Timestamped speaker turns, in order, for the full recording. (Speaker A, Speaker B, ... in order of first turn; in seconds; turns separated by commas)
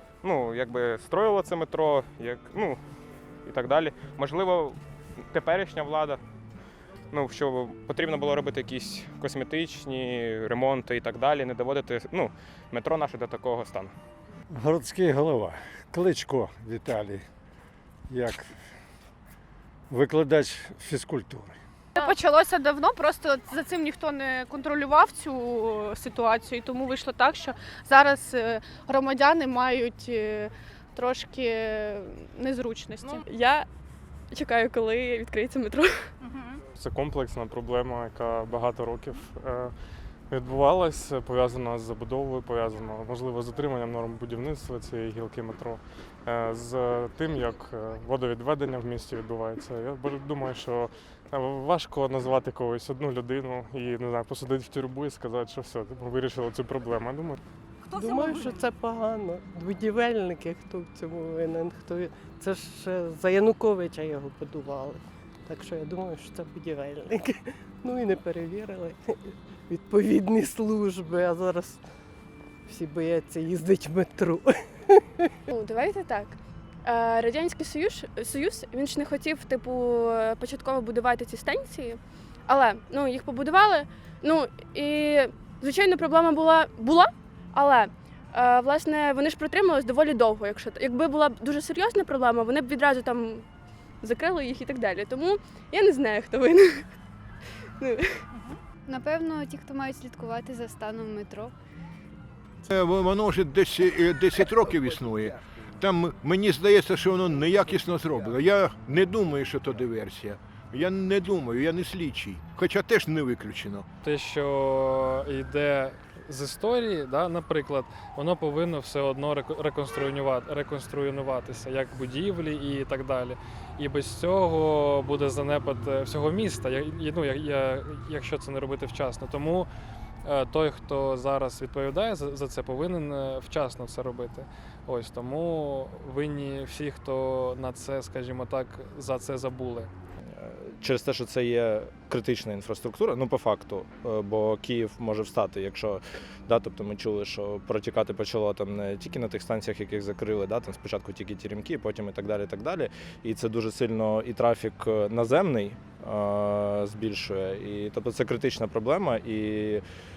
Speaker A: 0.2-2.8, Speaker A: 3.5-4.8, Speaker A: 5.3-6.2, Speaker A: 7.1-13.9, Speaker B: 14.5-17.3, Speaker B: 18.1-18.6, Speaker B: 19.9-21.6, Speaker C: 21.9-33.2, Speaker D: 33.2-33.7, Speaker D: 34.3-36.1, Speaker E: 36.8-39.7, Speaker E: 40.3-57.4, Speaker F: 57.9-71.8, Speaker F: 72.7-75.3, Speaker D: 75.5-93.5, Speaker D: 94.0-96.9, Speaker D: 97.8-98.2, Speaker G: 98.8-101.5, Speaker H: 102.7-113.8, Speaker I: 114.0-129.7, Speaker I: 130.2-139.9, Speaker J: 140.3-159.8